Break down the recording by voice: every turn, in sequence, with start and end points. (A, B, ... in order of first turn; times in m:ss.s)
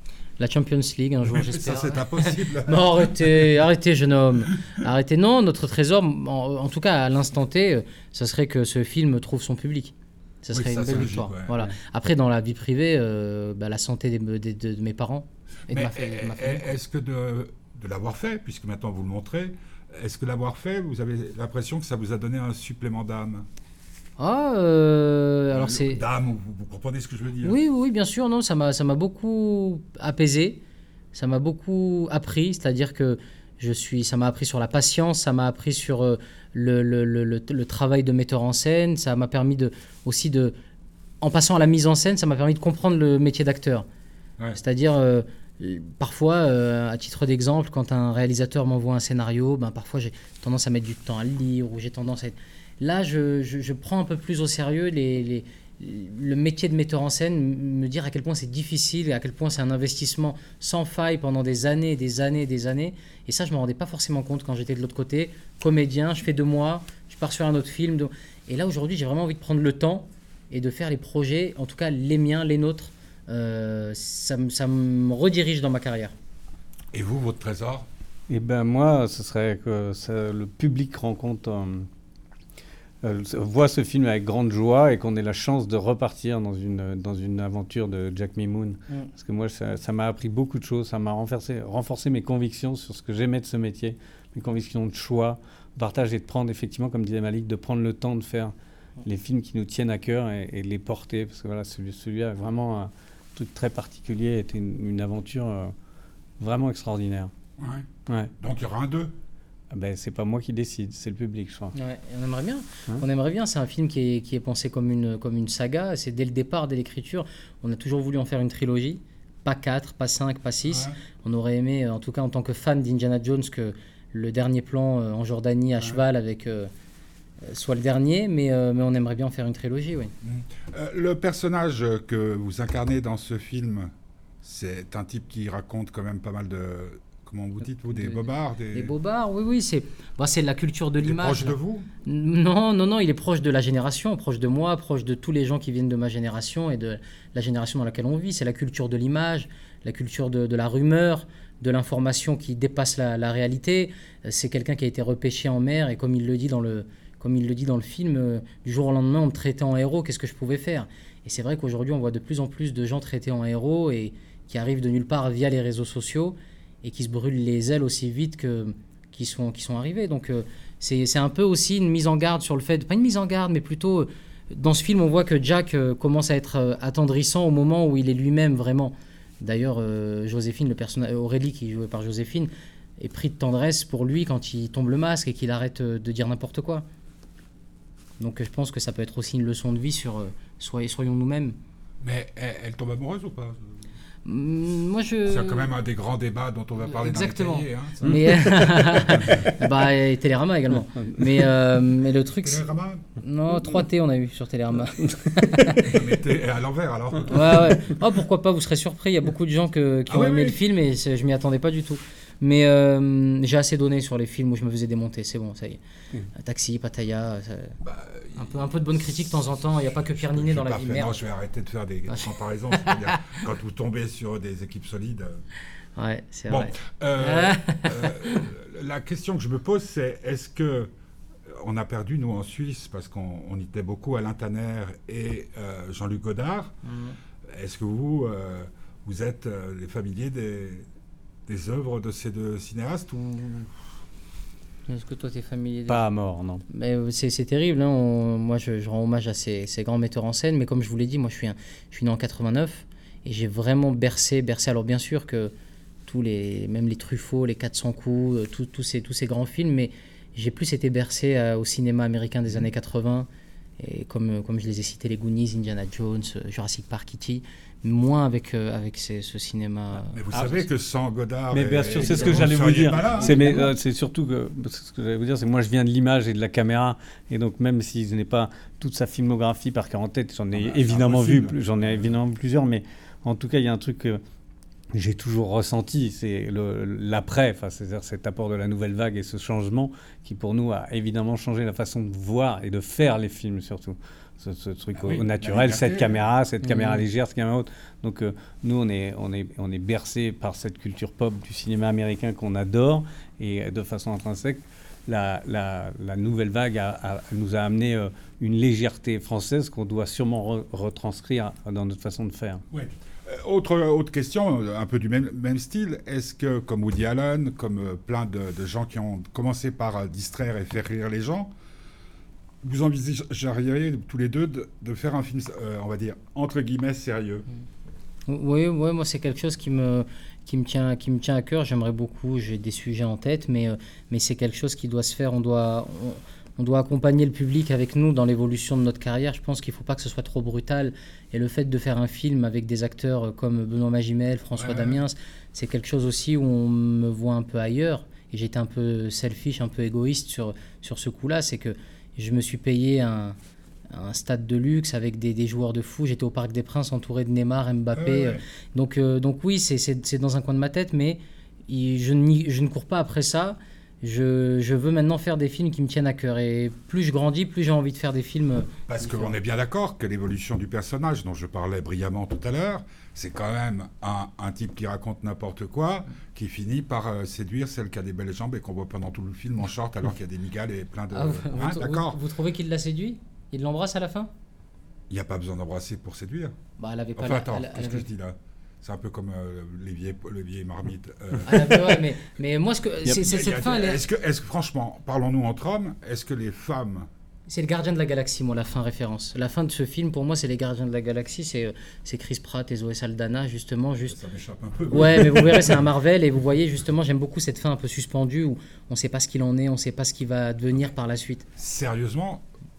0:00.4-0:16.7 A
0:01.2-0:03.4 B
0:10.5-0:11.7 B
0:15.7-0:23.4 B
0:24.2-0:26.0 A
0:25.5-0:27.6 B
0:27.4-0:30.6 A
0:31.1-0:40.5 A
0:41.2-0:43.8 A
0:44.6-1:16.1 A
1:16.9-1:17.9 B
1:18.3-1:21.9 C
1:23.0-1:45.7 C
1:46.4-1:47.3 C
1:47.6-1:47.9 B
1:48.0-1:48.3 C
1:48.4-1:49.1 B
1:49.7-1:51.7 C
1:51.7-2:06.7 A
2:00.6-2:01.0 B
2:07.4-2:10.1 A
2:10.2-2:13.9 B
2:14.4-2:18.9 B
2:17.9-2:18.2 A
2:18.7-3:06.8 A
2:21.0-2:21.9 B
3:08.2-3:11.6 A
3:12.0-3:13.7 B
3:14.2-3:15.7 A
3:15.2-3:18.4 B
3:16.8-3:22.7 A
3:19.1-3:19.5 B
3:21.0-3:21.3 C
3:22.4-3:23.0 B
3:23.2-3:26.0 A
3:25.8-3:27.9 B
3:27.3-3:35.8 A
3:30.1-3:30.6 B
3:36.4-3:37.8 A
3:37.8-3:45.4 B
3:38.4-3:41.2 A
3:42.1-3:43.2 A
3:46.0-3:48.4 A
3:46.5-3:50.9 B
3:51.5-3:56.8 B
3:56.8-3:57.2 A
3:57.5-4:00.9 B
4:01.5-4:03.7 B
4:04.9-4:06.0 A
4:05.9-4:06.6 C
4:06.7-4:15.5 A
4:16.1-4:23.3 A
4:23.8-4:30.6 A
4:30.1-4:33.3 B
4:31.5-4:44.2 C
4:32.0-4:32.5 A
4:33.1-4:33.7 A
4:40.5-4:42.1 B
4:44.9-5:12.6 C
4:55.0-4:56.2 B
4:56.6-4:57.0 A
5:12.7-5:21.5 B
5:22.6-5:27.4 B
5:28.3-5:53.4 A
5:44.6-5:45.0 B
5:53.9-6:09.4 A
5:57.9-5:58.4 B
6:08.9-6:22.2 B
6:21.1-6:24.3 A
6:25.1-6:26.5 B
6:26.8-6:28.0 A
6:27.2-6:32.0 B
6:31.4-6:34.0 A
6:33.1-6:37.1 B
6:37.5-6:44.2 A
6:44.1-6:45.8 B
6:44.9-6:51.5 A
6:51.6-6:52.4 B